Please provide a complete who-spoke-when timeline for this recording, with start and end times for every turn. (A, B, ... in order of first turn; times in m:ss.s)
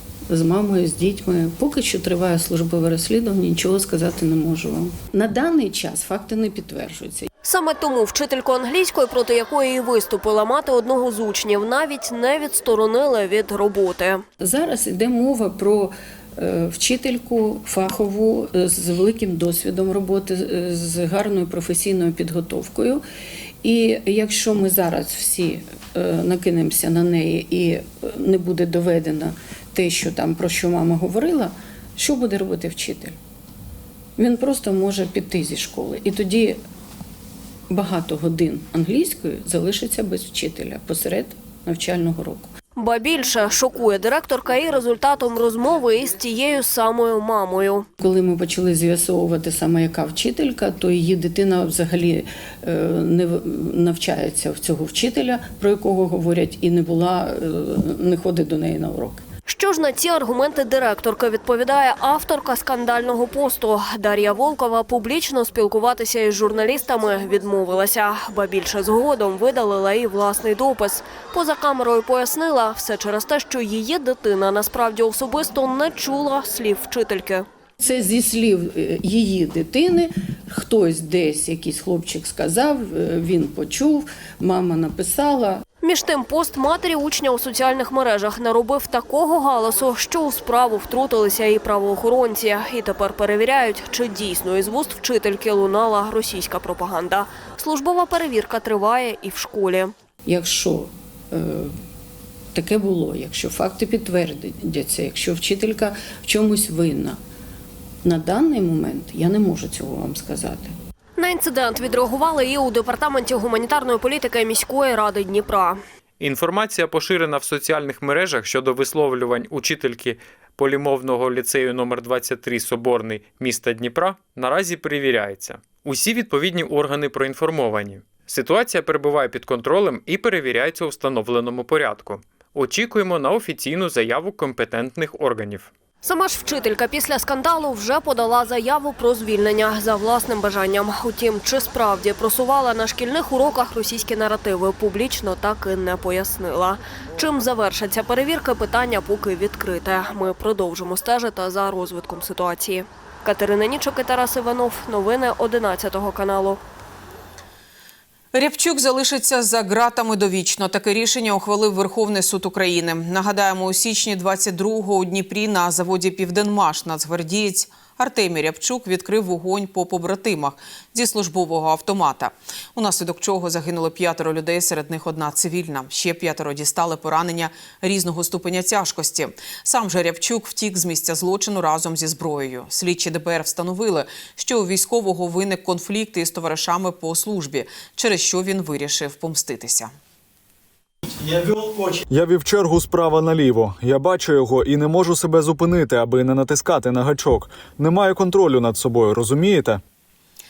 0:00.3-0:07.3 A
0:07.4-0:14.2 B
0:14.4-0:23.0 A
0:23.6-0:33.2 A
0:34.2-0:36.6 A
0:37.7-0:42.5 A
0:42.8-0:47.9 B
0:48.0-0:59.2 A
0:59.5-1:17.5 B
1:17.8-1:25.6 A
1:25.8-1:39.9 B
1:40.3-1:41.8 A
1:42.5-1:47.2 A
1:48.0-1:50.7 A
1:51.2-1:55.8 B
1:56.2-2:15.7 C
2:16.0-2:36.6 B
2:38.3-3:09.9 D
3:11.6-3:19.8 E